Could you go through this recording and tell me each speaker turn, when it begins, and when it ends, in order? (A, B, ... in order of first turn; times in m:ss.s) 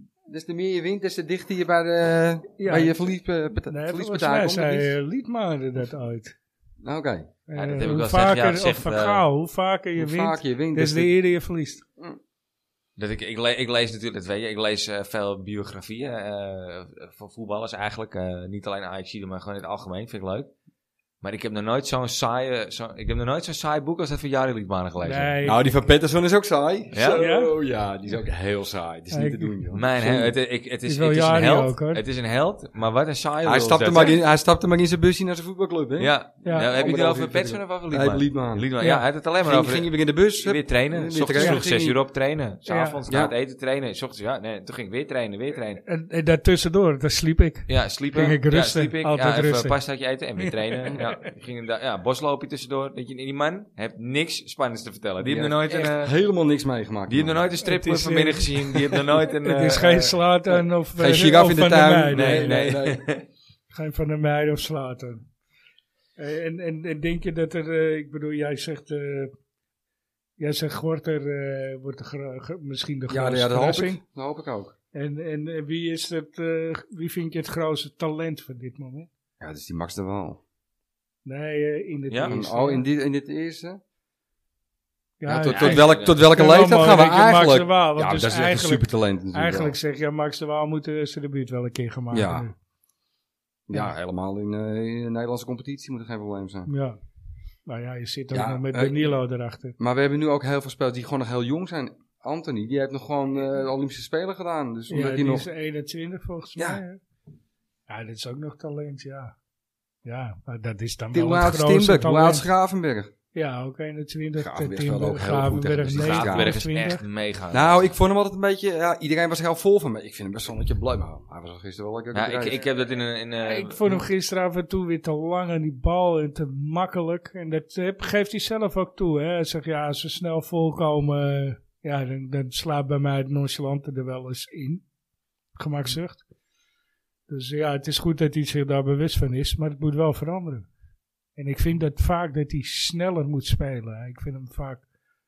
0:00.2-0:04.9 A
0:02.6-0:02.9 B
0:03.7-0:06.4 B
0:06.8-0:07.3 A
0:07.5-0:11.8 B
0:07.5-0:09.2 C
0:10.0-0:11.1 A
0:13.0-0:20.5 C
0:21.2-0:25.4 C
0:25.0-0:25.6 B
0:25.4-0:30.3 A
0:26.9-0:27.2 C
0:27.1-0:27.5 B
0:29.1-0:29.6 B
0:29.7-0:34.2 C
0:30.8-0:32.0 B
0:33.4-0:38.6 A
0:36.0-0:45.8 C
0:36.4-0:36.7 B
0:39.4-0:42.0 A
0:41.3-0:41.6 B
0:42.6-0:43.0 B
0:43.1-0:43.3 A
0:45.8-0:49.8 B
0:47.7-0:56.1 C
0:50.4-0:51.1 B
0:55.2-0:57.5 A
0:57.1-1:00.2 C
0:57.6-1:02.7 B
1:00.5-1:03.0 A
1:02.1-1:03.2 C
1:03.7-1:05.3 B
1:06.2-1:09.3 B
1:10.4-1:14.0 B
1:13.1-1:14.7 A
1:14.9-1:19.1 B
1:19.4-1:20.4 A
1:21.2-1:22.8 B
1:22.1-1:22.4 C
1:22.2-1:23.8 A
1:25.2-1:32.5 B
1:25.3-1:29.8 A
1:25.5-1:26.2 C
1:32.1-1:32.5 A
1:33.7-1:36.7 A
1:36.7-1:37.0 B
1:37.6-1:39.7 B
1:38.3-1:39.0 A
1:39.8-1:45.5 A
1:44.9-1:47.0 B
1:46.6-1:46.8 A
1:47.9-1:49.3 B
1:50.0-1:52.5 B
1:51.1-1:53.1 A
1:53.3-1:57.0 B
1:54.4-1:56.6 A
1:55.9-1:57.9 C
1:57.5-2:02.6 A
2:02.1-2:04.0 C
2:03.4-2:14.8 B
2:15.6-2:16.2 B
2:17.3-2:20.7 B
2:21.4-2:24.8 B